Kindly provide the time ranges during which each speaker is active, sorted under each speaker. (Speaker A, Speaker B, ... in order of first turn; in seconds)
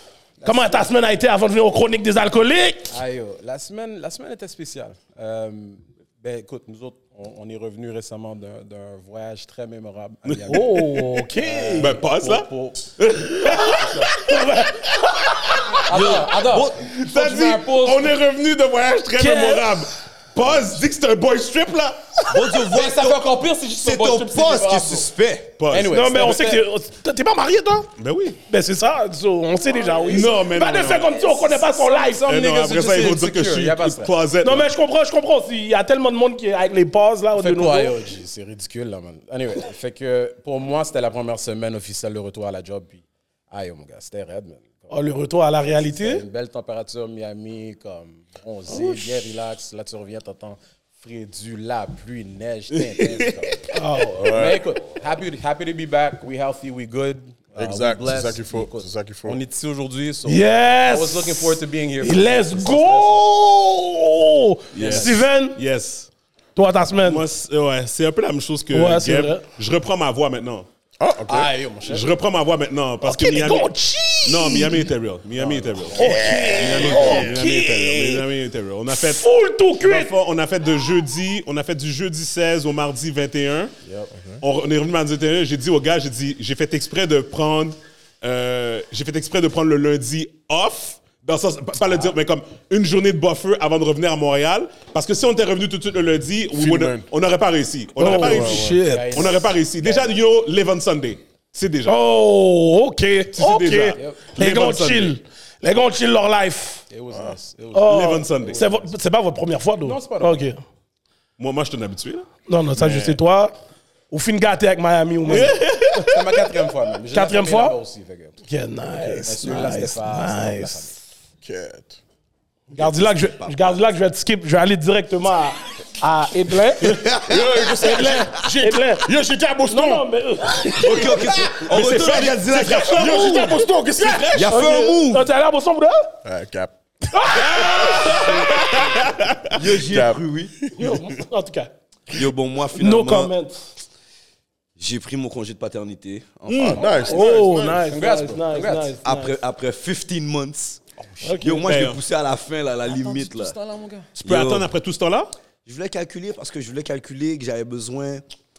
Speaker A: 0.4-0.9, 2.9-12.9, 13.7-14.1, 15.8-18.1, 22.6-25.1, 25.7-26.6, 29.7-30.3, 31.3-34.1, 37.3-44.9, 45.8-53.6, 54.2-63.2, 64.7-65.2, 71.3-72.1, 75.4-76.0, 83.8-84.1, 98.0-100.1, 103.9-104.4, 106.9-108.9, 109.8-110.5, 116.0-118.4, 119.2-121.0, 147.8-148.9, 151.0-151.4, 152.9-154.1
Speaker B: 0.4-2.9, 10.5-11.9, 13.4-15.3, 19.2-19.8, 25.9-27.9, 28.5-32.3, 34.4-38.0, 44.9-46.2, 48.7-49.2, 53.7-54.4, 60.2-65.6, 66.5-67.2, 68.7-69.4, 73.0-74.9, 76.0-78.2, 78.9-80.1, 98.0-99.3, 101.8-106.8, 107.7-110.6, 112.5-113.5, 114.1-116.1, 117.1-117.8, 118.5-120.9, 122.7-127.1, 127.7-129.1, 129.7-131.2, 133.1-133.5, 134.3-136.1, 137.1-138.6, 140.7-141.7, 142.7-143.6, 147.0-149.3, 151.2-151.6
Speaker C: 10.2-15.8, 16.9-22.5, 25.6-25.9, 28.0-28.4, 30.1-31.2, 32.2-34.7, 52.7-53.6, 65.5-66.1, 67.0-70.7, 71.9-79.2, 79.8-83.7, 84.4-102.0, 103.3-105.2, 107.8-108.6, 111.4-113.2, 115.2-116.4, 131.6-134.3, 137.4-139.5, 146.5-146.8, 151.6-152.0, 154.2-155.3
Speaker D: 15.9-16.9, 22.3-25.5, 122.8-123.8, 126.8-128.2, 130.7-133.5, 134.3-135.3, 139.5-140.7, 142.1-143.3, 144.8-147.0, 149.0-150.8, 151.3-153.6, 154.2-154.7, 155.7-158.2
Speaker E: 54.1-54.6, 57.5-59.4, 64.7-65.1, 71.0-71.5, 76.0-77.4, 96.5-97.0, 118.9-119.5, 121.4-122.0, 127.2-130.1, 130.7-134.7, 136.2-138.8, 139.8-140.9, 146.5-147.9